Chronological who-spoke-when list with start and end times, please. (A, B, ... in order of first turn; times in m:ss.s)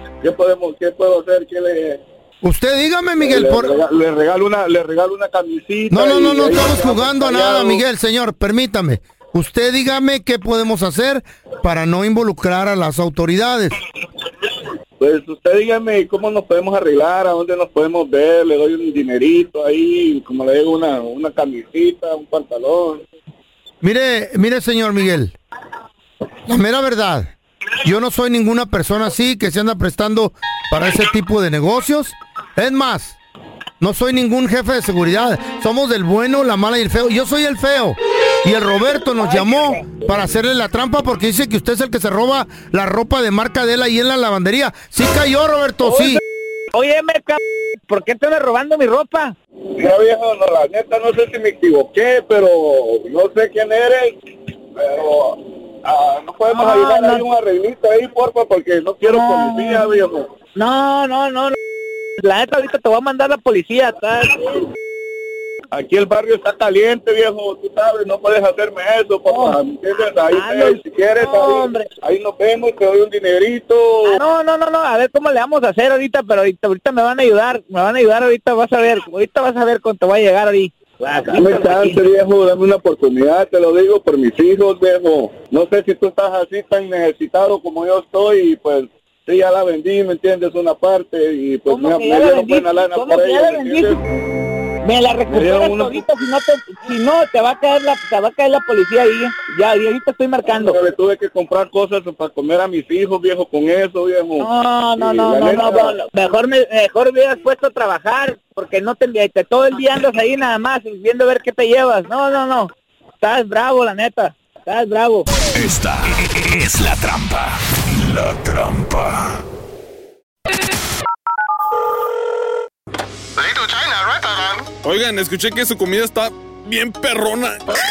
0:00.2-0:02.0 A
0:02.4-0:03.7 B
0:03.2-0:07.8 A
0:05.9-0:13.8 B
0:15.0-0:23.0 A
0:23.8-0:25.3 B
0:26.5-0:33.2 B
0:33.8-0:46.2 B
0:39.2-0:39.7 C
0:46.7-0:49.4 C
0:49.8-0:54.2 A
0:54.8-1:00.3 A
0:56.5-0:57.2 C
0:59.0-1:00.0 C
1:00.6-1:01.6 C
1:02.2-1:04.6 C
1:05.7-1:14.2 A
1:09.3-1:09.6 C
1:10.3-1:11.9 C
1:14.1-1:22.0 C
1:21.3-1:34.0 A
1:31.7-1:34.0 C
1:34.8-1:40.8 C
1:35.3-1:36.0 A
1:40.5-1:46.0 A
1:44.4-1:55.3 C
1:55.5-1:59.4 D
2:04.9-2:07.6 E